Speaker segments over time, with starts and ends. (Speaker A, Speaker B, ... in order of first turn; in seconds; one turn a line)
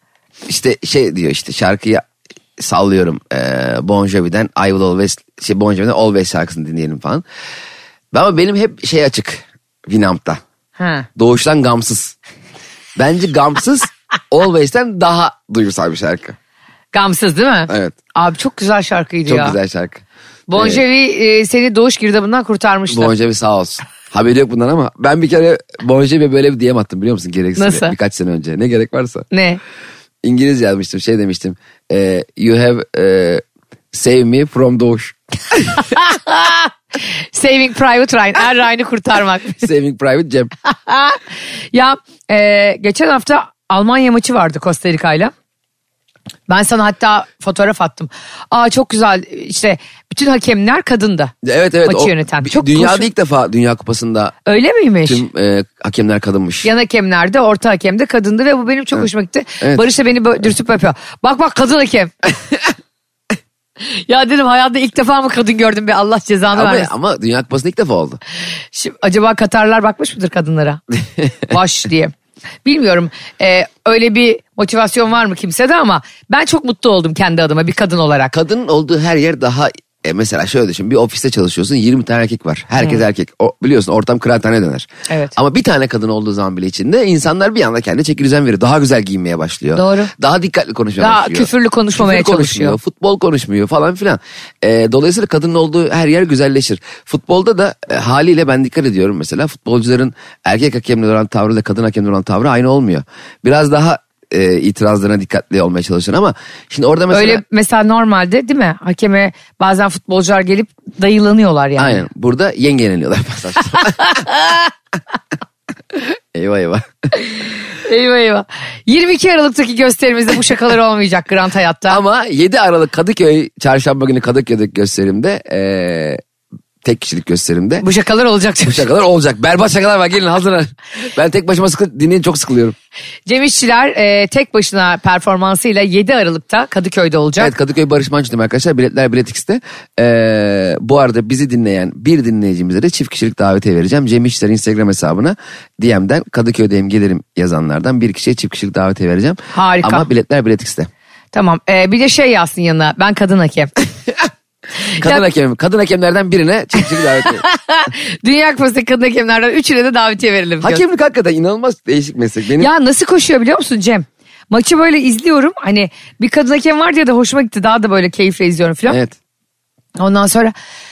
Speaker A: 0.5-2.0
Speaker A: 2.6-7.2
Speaker A: 8.1-10.4
Speaker B: 10.8-11.1
Speaker A: 11.2-12.2
Speaker A: 12.9-16.4
Speaker B: 16.9-19.6
Speaker A: 17.7-17.9
Speaker A: 19.2-20.0
Speaker B: 20.5-23.1
Speaker A: 20.6-20.8
Speaker A: 22.9-29.3
Speaker B: 27.6-27.9
Speaker B: 29.3-29.6
Speaker A: 30.2-35.8
Speaker B: 35.9-36.7
Speaker B: 37.3-39.6
Speaker A: 39.6-40.5
Speaker B: 40.6-41.2
Speaker B: 41.7-45.3
Speaker B: 46.5-51.3
Speaker A: 51.4-54.3
Speaker B: 51.9-53.1
Speaker B: 54.4-55.2
Speaker A: 55.0-56.7
Speaker B: 56.6-62.1
Speaker B: 63.8-66.9
Speaker A: 66.5-68.2
Speaker B: 68.7-70.8
Speaker B: 71.4-72.1
Speaker B: 72.6-78.3
Speaker A: 78.3-107.4
Speaker B: 85.1-85.3
Speaker B: 89.8-90.1
Speaker B: 91.0-92.8
Speaker B: 107.1-112.0
Speaker A: 111.8-114.0
Speaker B: 114.0-114.6
Speaker A: 116.0-117.0
Speaker B: 117.2-122.0
Speaker A: 121.9-126.2
Speaker A: 126.8-127.8
Speaker B: 127.8-128.8
Speaker A: 128.6-132.8
Speaker B: 133.3-137.5
Speaker A: 137.4-150.9
Speaker B: 149.5-150.1
Speaker B: 151.3-153.7
Speaker B: 155.0-155.2
Speaker A: 155.0-157.4
Speaker B: 157.2-160.8
Speaker A: 160.6-162.7
Speaker B: 162.6-169.0
Speaker A: 168.9-169.1
Speaker B: 170.0-170.5